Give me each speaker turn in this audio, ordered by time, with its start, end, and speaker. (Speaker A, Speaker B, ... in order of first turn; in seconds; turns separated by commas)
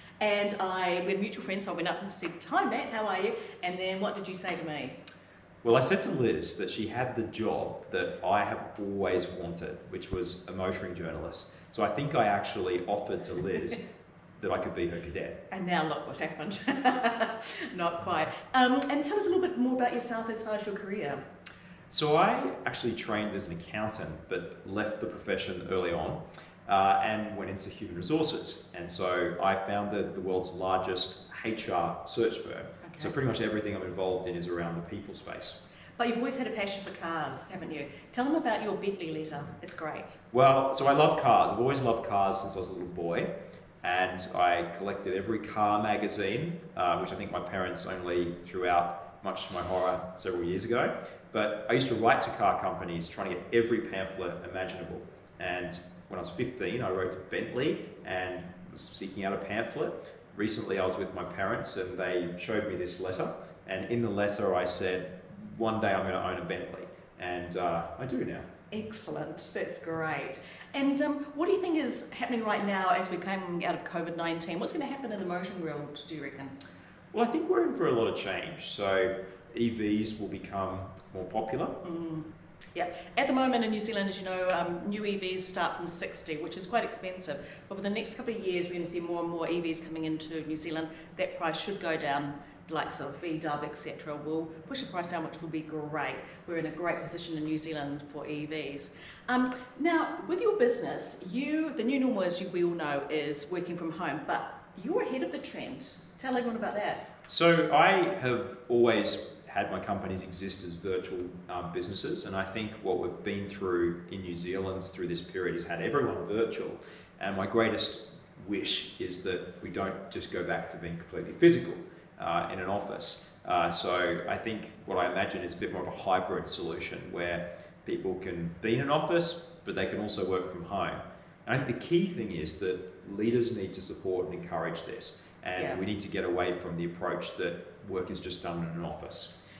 Speaker A: 0.2-5.0, Speaker B: 5.6-15.4, Speaker A: 15.5-21.2, Speaker B: 21.9-35.6, Speaker A: 32.8-33.1, Speaker A: 36.0-40.2, Speaker B: 40.3-43.3, Speaker B: 43.8-68.5, Speaker A: 68.7-76.5, Speaker B: 77.1-81.8, Speaker A: 81.8-107.1, Speaker B: 107.3-139.3, Speaker A: 135.5-135.8